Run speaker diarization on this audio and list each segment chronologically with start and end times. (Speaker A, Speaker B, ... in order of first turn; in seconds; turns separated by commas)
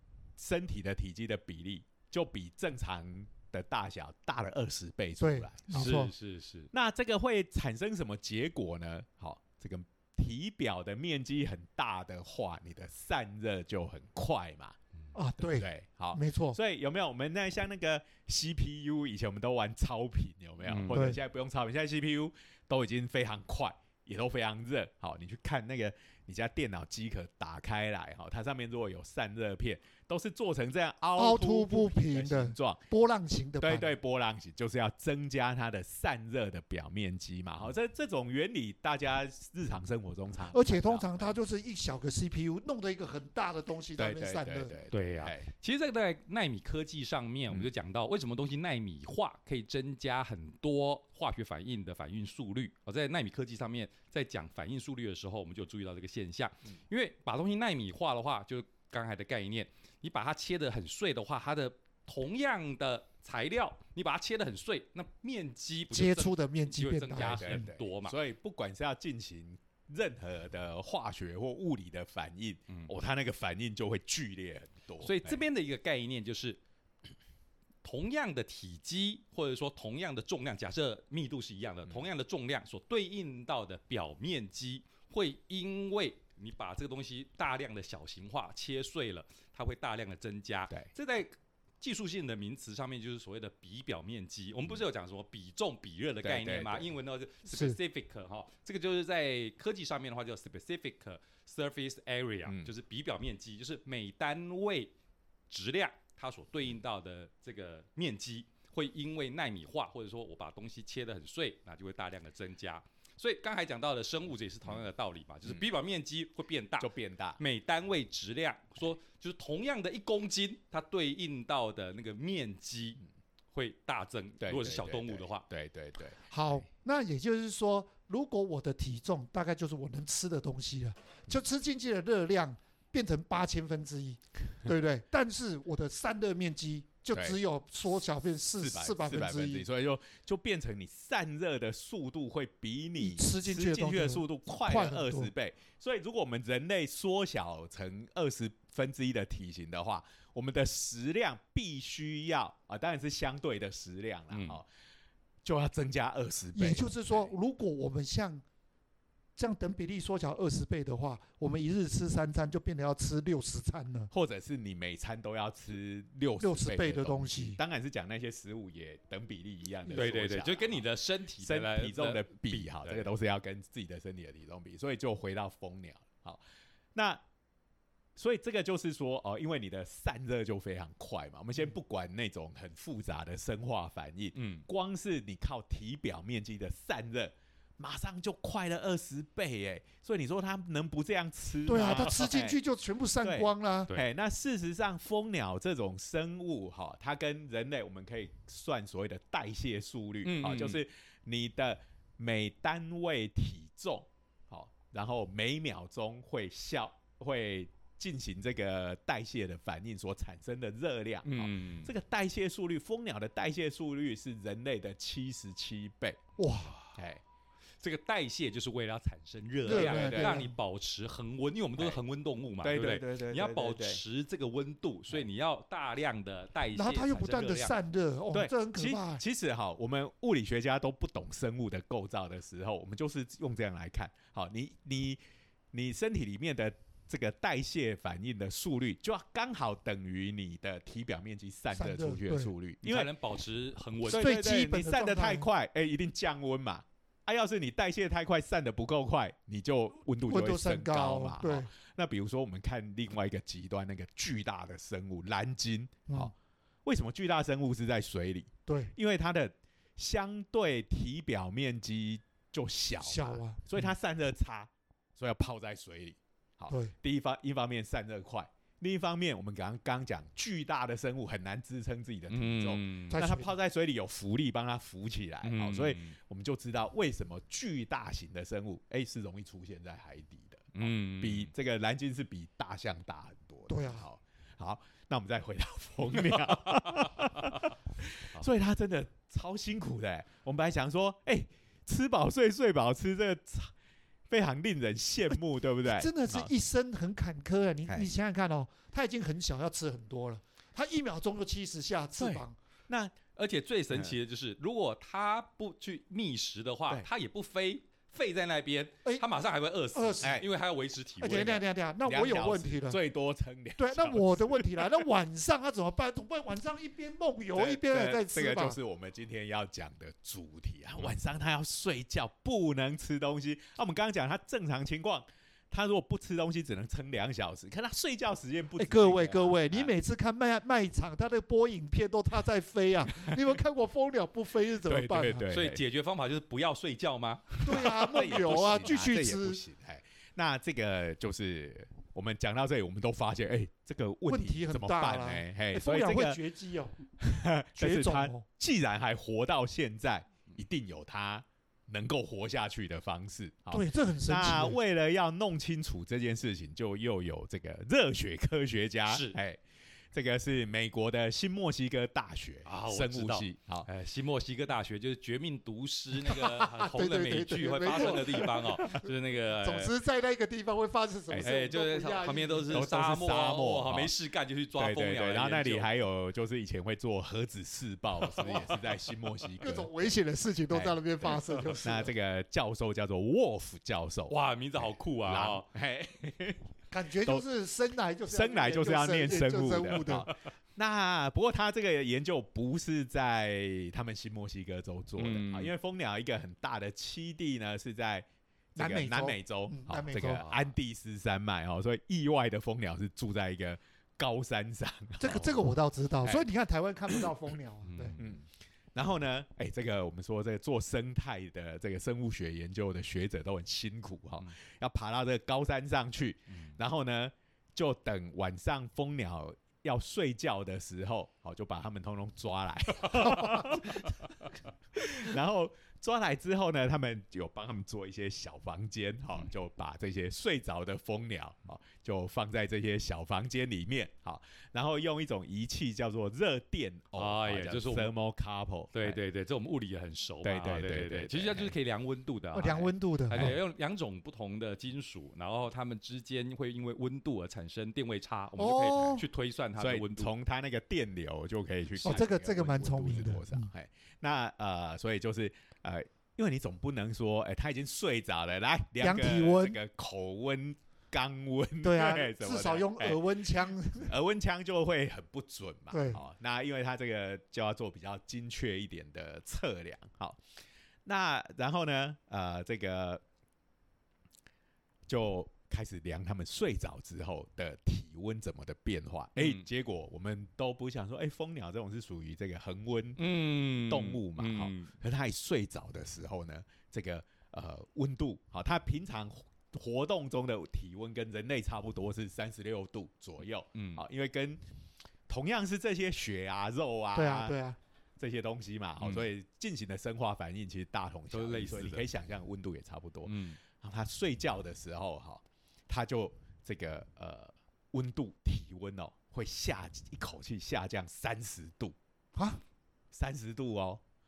Speaker A: 0.4-6.1, Speaker B: 5.2-6.1, Speaker C: 5.7-6.7, Speaker A: 6.7-14.8, Speaker B: 15.2-16.6, Speaker A: 15.4-32.8, Speaker C: 20.6-21.0, Speaker B: 20.9-21.2, Speaker B: 31.2-33.9, Speaker A: 33.6-41.3, Speaker B: 40.5-44.7, Speaker A: 44.0-45.5, Speaker C: 44.9-68.2, Speaker B: 65.9-67.7, Speaker A: 67.2-75.4, Speaker C: 75.0-76.6, Speaker C: 77.8-104.9, Speaker A: 96.2-96.9, Speaker B: 97.5-97.8, Speaker A: 102.5-102.7, Speaker C: 105.5-123.0, Speaker A: 116.8-117.4, Speaker C: 123.5-125.5, Speaker A: 124.4-126.6, Speaker B: 126.3-139.7, Speaker A: 137.1-137.4, Speaker A: 138.6-154.7, Speaker B: 143.0-145.3, Speaker C: 154.3-154.6, Speaker A: 155.4-157.3, Speaker B: 156.6-158.4, Speaker B: 159.4-164.1, Speaker A: 164.1-170.8, Speaker B: 166.4-167.6, Speaker C: 169.9-173.1, Speaker A: 171.4-176.4, Speaker A: 176.9-177.2, Speaker A: 178.2-192.6, Speaker C: 184.3-184.7, Speaker B: 191.7-193.9, Speaker A: 193.2-216.2, Speaker C: 200.2-200.8, Speaker C: 211.2-211.9, Speaker B: 216.4-216.8, Speaker C: 216.7-216.9, Speaker A: 216.9-217.2, Speaker C: 217.8-227.8, Speaker B: 219.7-220.6, Speaker A: 219.7-220.4, Speaker A: 222.6-224.0, Speaker B: 226.8-229.2, Speaker A: 228.3-235.2, Speaker A: 235.7-243.1, Speaker B: 241.7-242.5, Speaker C: 242.8-244.3, Speaker A: 244.1-256.3, Speaker B: 244.1-245.5, Speaker B: 250.3-251.7, Speaker A: 256.9-293.7, Speaker B: 258.7-258.9, Speaker B: 263.0-263.7, Speaker B: 266.7-266.9, Speaker C: 272.3-273.2, Speaker B: 273.1-273.5, Speaker C: 275.4-276.2, Speaker C: 280.8-281.5, Speaker B: 283.7-284.1, Speaker C: 286.7-287.7, Speaker A: 294.3-296.5, Speaker B: 295.8-302.6, Speaker A: 297.9-298.1, Speaker A: 302.2-303.2, Speaker C: 303.4-311.6, Speaker B: 309.9-310.4, Speaker A: 310.2-310.5, Speaker B: 311.2-313.0, Speaker A: 311.3-315.1, Speaker B: 313.8-318.8, Speaker A: 317.5-329.9, Speaker B: 328.8-335.5, Speaker A: 334.9-335.8, Speaker C: 335.5-338.2, Speaker B: 337.6-339.6, Speaker A: 337.7-346.4, Speaker B: 344.3-347.0, Speaker A: 347.2-363.9, Speaker B: 347.8-348.4, Speaker B: 353.7-354.8, Speaker C: 359.1-359.4, Speaker C: 362.6-369.9, Speaker B: 366.4-369.1, Speaker B: 369.6-372.8, Speaker A: 371.3-371.6, Speaker C: 371.4-375.9, Speaker A: 372.7-374.1, Speaker A: 374.8-380.2, Speaker B: 379.6-382.1, Speaker A: 380.7-384.4, Speaker C: 384.3-385.7, Speaker A: 385.2-387.4, Speaker B: 386.9-390.3, Speaker A: 388.3-405.7, Speaker C: 395.2-395.7, Speaker B: 398.8-400.5, Speaker B: 405.2-408.2, Speaker C: 407.9-408.4, Speaker A: 408.9-439.2, Speaker C: 416.5-416.8, Speaker C: 437.2-438.1, Speaker C: 438.9-450.3, Speaker A: 440.4-441.7, Speaker B: 442.5-443.5, Speaker B: 448.6-449.2, Speaker A: 449.8-463.3, Speaker B: 452.0-453.7, Speaker B: 459.0-459.8, Speaker B: 461.8-464.1, Speaker A: 464.0-470.4, Speaker B: 465.9-466.2, Speaker A: 471.1-473.2, Speaker A: 475.1-483.2, Speaker C: 479.4-479.6, Speaker C: 483.2-484.9, Speaker A: 483.8-494.6, Speaker C: 493.8-494.0, Speaker A: 495.3-497.6, Speaker B: 497.1-497.8, Speaker A: 498.2-512.0, Speaker C: 501.3-502.1, Speaker C: 503.2-503.6, Speaker B: 512.4-512.6, Speaker A: 513.1-514.0